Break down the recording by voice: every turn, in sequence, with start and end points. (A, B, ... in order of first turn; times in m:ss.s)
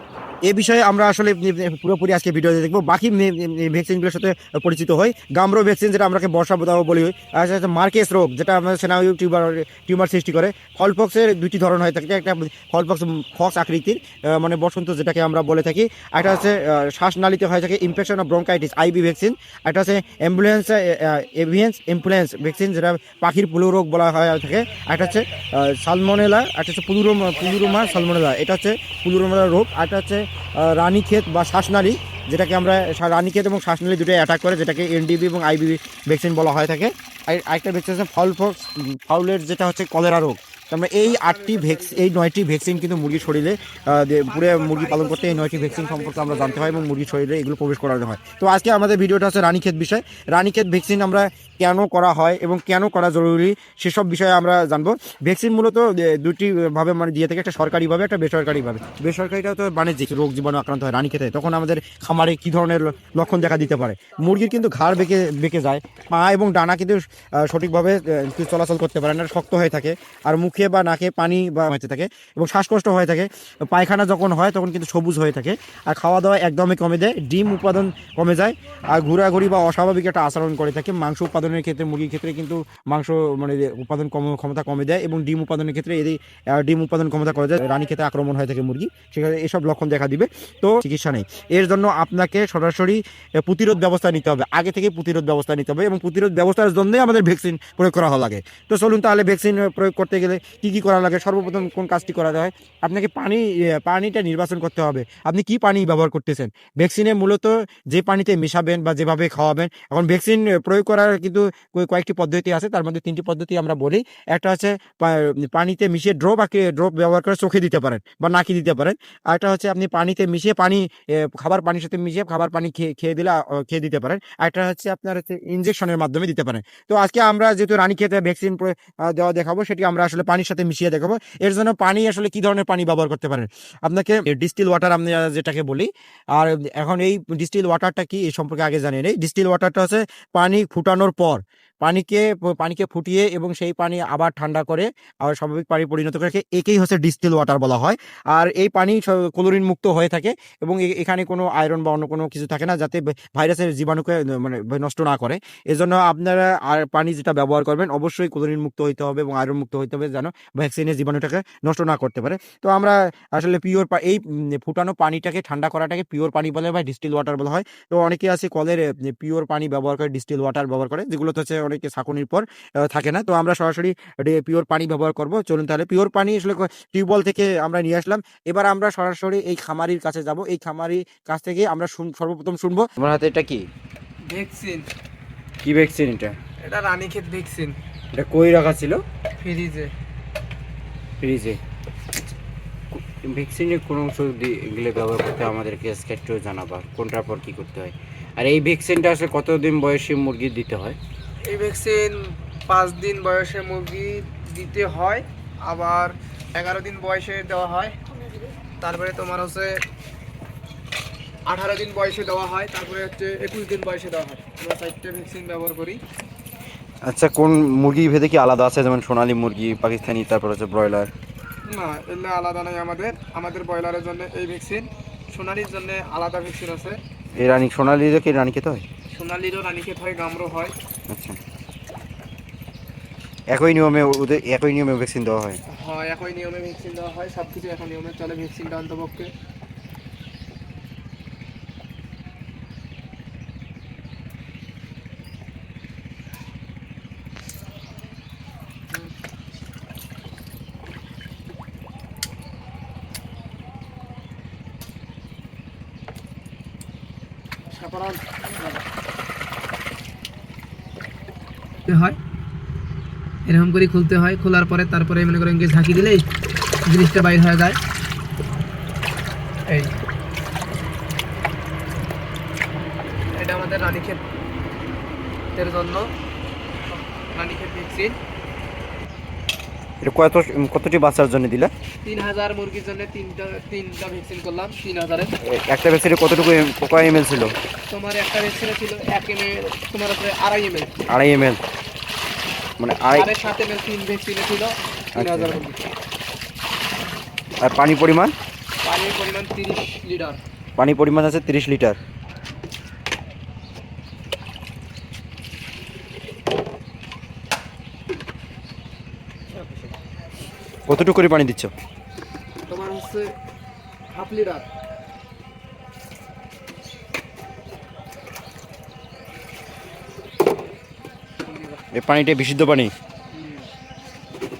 0:00.4-3:03.7 A
0:41.0-0:42.1 B
0:44.2-0:46.9 B
3:04.2-3:04.9 B
3:05.6-3:06.4 A
3:06.6-3:07.8 B
3:08.1-3:09.0 A
3:09.4-3:09.9 B
3:11.2-3:11.6 A
3:13.0-3:21.0 A
3:21.4-3:28.0 B
3:28.8-3:29.8 B
3:31.5-3:36.0 B
3:37.0-3:41.1 A
3:41.6-3:47.0 B
3:47.4-3:48.8 A
3:49.1-3:50.8 B
3:51.1-3:51.4 A
3:53.5-3:55.6 A
3:55.7-3:59.3 B
4:17.7-4:18.8 B
4:21.9-4:22.2 B
4:23.5-4:26.3 B
4:26.8-4:27.8 B
4:29.7-4:30.0 B
4:33.3-4:34.2 B
4:35.6-4:36.1 B
4:36.9-4:38.2 B
4:40.0-4:41.7 A
4:42.0-4:45.4 B
4:45.4-4:47.5 A
4:47.9-4:50.9 B
4:51.1-4:51.6 A
4:52.8-4:53.3 A
4:53.1-4:55.8 B
4:55.2-4:55.6 A
4:57.6-4:58.3 A
4:58.8-5:00.4 B
5:00.8-5:02.0 A
5:09.6-5:09.9 B
5:10.9-5:11.7 A
5:12.7-5:13.3 B
5:14.1-5:14.7 B
5:21.4-5:21.8 B
5:21.9-5:22.9 A
5:23.3-5:23.7 B